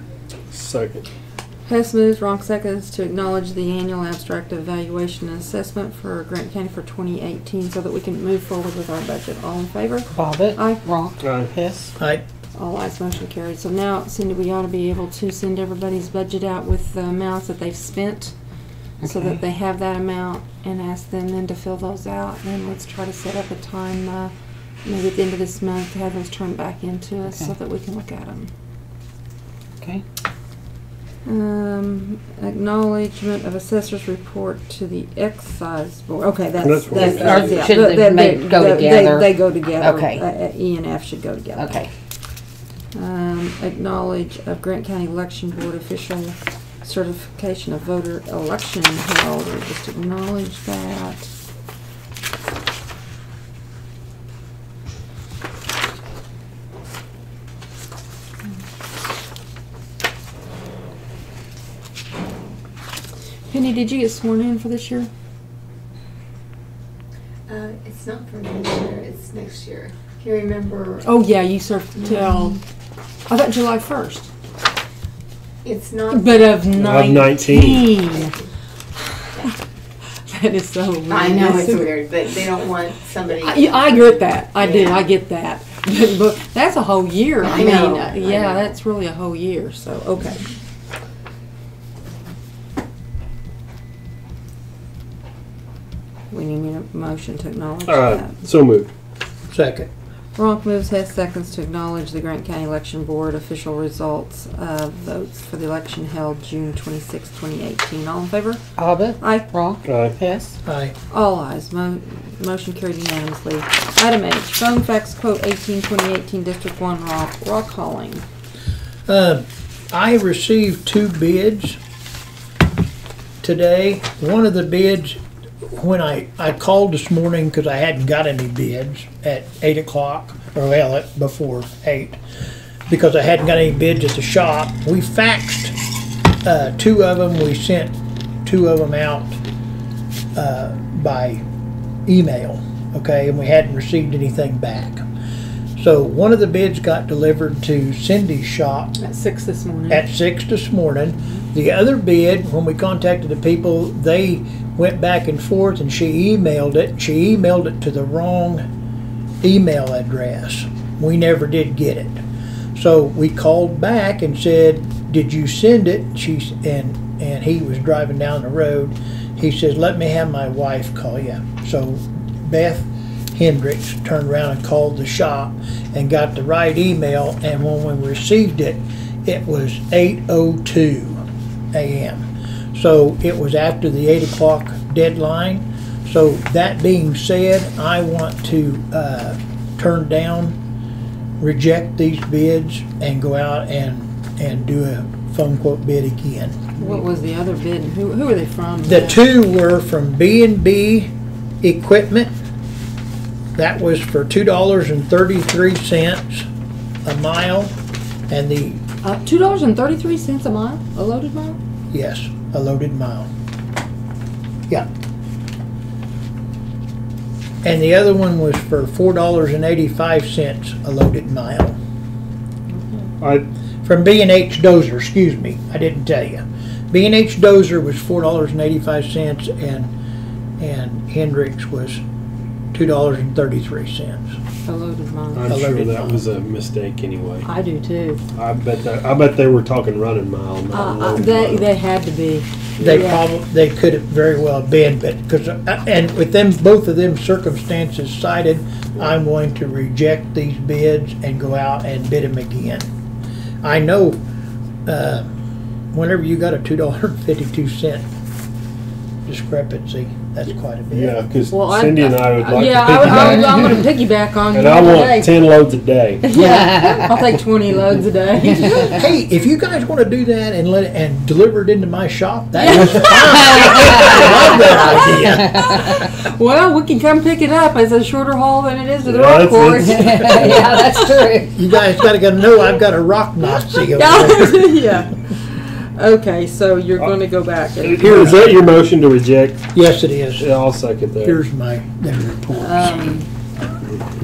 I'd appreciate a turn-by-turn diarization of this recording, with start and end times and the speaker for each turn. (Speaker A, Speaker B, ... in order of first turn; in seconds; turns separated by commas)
Speaker A: 0.5-1.1, Speaker B: 1.7-10.8, Speaker C: 10.2-11.9, Speaker A: 11.2-11.5, Speaker D: 12.0-12.2, Speaker B: 12.6-18.3, Speaker B: 19.0-24.3, Speaker C: 19.0-19.3, Speaker B: 24.8-28.5, Speaker B: 31.3-41.9, Speaker A: 36.6-37.8, Speaker C: 36.9-40.2, Speaker C: 41.6-41.9, Speaker B: 42.9-51.3, Speaker B: 63.5-65.1, Speaker E: 67.5-71.1, Speaker B: 71.0-72.6, Speaker E: 72.0-72.5, Speaker B: 73.3-74.3, Speaker E: 75.6-76.7, Speaker B: 76.1-78.4, Speaker A: 76.7-78.0, Speaker E: 78.2-78.5, Speaker B: 79.3-79.5, Speaker B: 80.3-82.0, Speaker E: 81.1-85.1, Speaker B: 83.4-90.4, Speaker E: 87.4-88.7, Speaker B: 96.3-98.4, Speaker A: 97.9-98.9, Speaker D: 99.5-99.9, Speaker B: 100.4-108.6, Speaker C: 108.8-110.5, Speaker B: 109.2-109.5, Speaker A: 109.8-110.2, Speaker D: 110.7-111.0, Speaker B: 111.1-118.2, Speaker D: 119.1-121.8, Speaker D: 123.4-132.2, Speaker D: 132.9-135.8, Speaker D: 136.4-139.4, Speaker D: 140.4-141.4, Speaker D: 142.1-145.1, Speaker D: 145.8-148.9, Speaker B: 149.0-150.1, Speaker D: 149.9-158.7, Speaker D: 159.4-162.2, Speaker D: 162.8-190.6, Speaker D: 191.4-196.7, Speaker B: 196.8-199.2, Speaker D: 198.9-201.1, Speaker D: 201.6-202.4, Speaker D: 203.6-206.5, Speaker D: 207.1-207.8, Speaker D: 208.3-208.8, Speaker B: 209.0-211.6, Speaker D: 211.9-213.3, Speaker D: 217.6-221.8, Speaker B: 222.7-223.1, Speaker A: 223.2-223.5, Speaker D: 223.8-229.9, Speaker D: 230.6-232.0, Speaker D: 232.7-234.4, Speaker B: 234.7-235.5, Speaker A: 235.3-237.5, Speaker D: 235.5-236.2, Speaker B: 237.5-238.2, Speaker A: 238.3-241.7, Speaker B: 240.7-243.2, Speaker D: 242.8-252.9, Speaker D: 253.6-254.2, Speaker D: 254.9-255.3, Speaker D: 255.9-258.0, Speaker D: 259.3-261.2, Speaker A: 260.9-263.9, Speaker B: 261.5-265.5, Speaker A: 264.5-266.3, Speaker B: 266.2-269.1, Speaker C: 266.4-267.1, Speaker D: 268.8-275.7, Speaker B: 272.6-281.3, Speaker C: 273.6-274.2, Speaker A: 279.0-280.8, Speaker C: 279.8-281.5, Speaker D: 281.5-284.8, Speaker B: 283.7-288.5, Speaker A: 287.8-289.7, Speaker D: 289.7-290.5, Speaker A: 290.4-291.4, Speaker D: 291.2-293.2, Speaker B: 292.5-293.3